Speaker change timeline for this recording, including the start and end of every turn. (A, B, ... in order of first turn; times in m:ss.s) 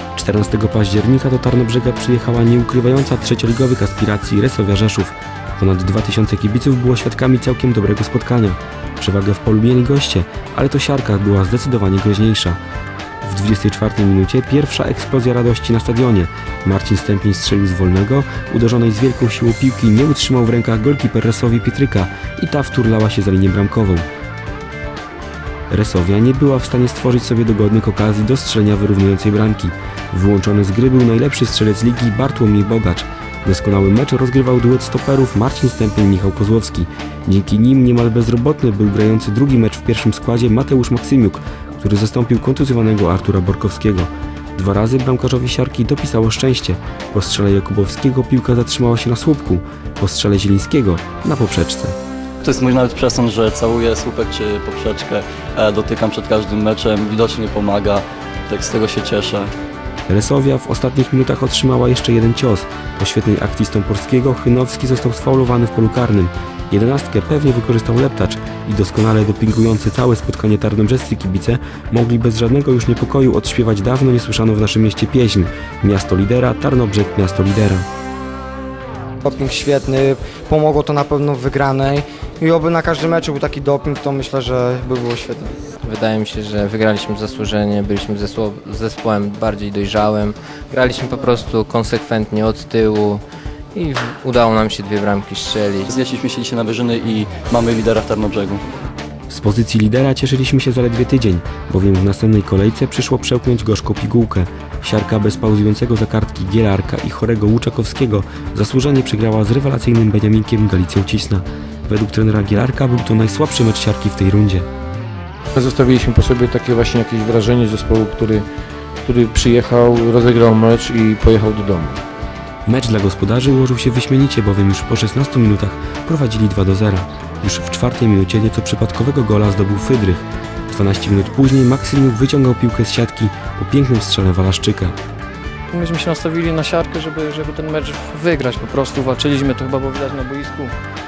0:00.2-0:12.6 A
0:13.2-0:24.0 A
0:25.7-0:52.0 A
0:52.4-0:59.5 B
1:00.1-1:17.8 A
1:19.2-1:25.5 C
1:25.8-1:33.2 D
1:33.7-1:36.0 D
1:35.9-1:38.6 B
1:39.3-1:54.7 A
1:55.5-1:58.4 E
1:59.0-2:02.0 E
2:02.6-2:14.9 A
2:15.7-2:20.7 F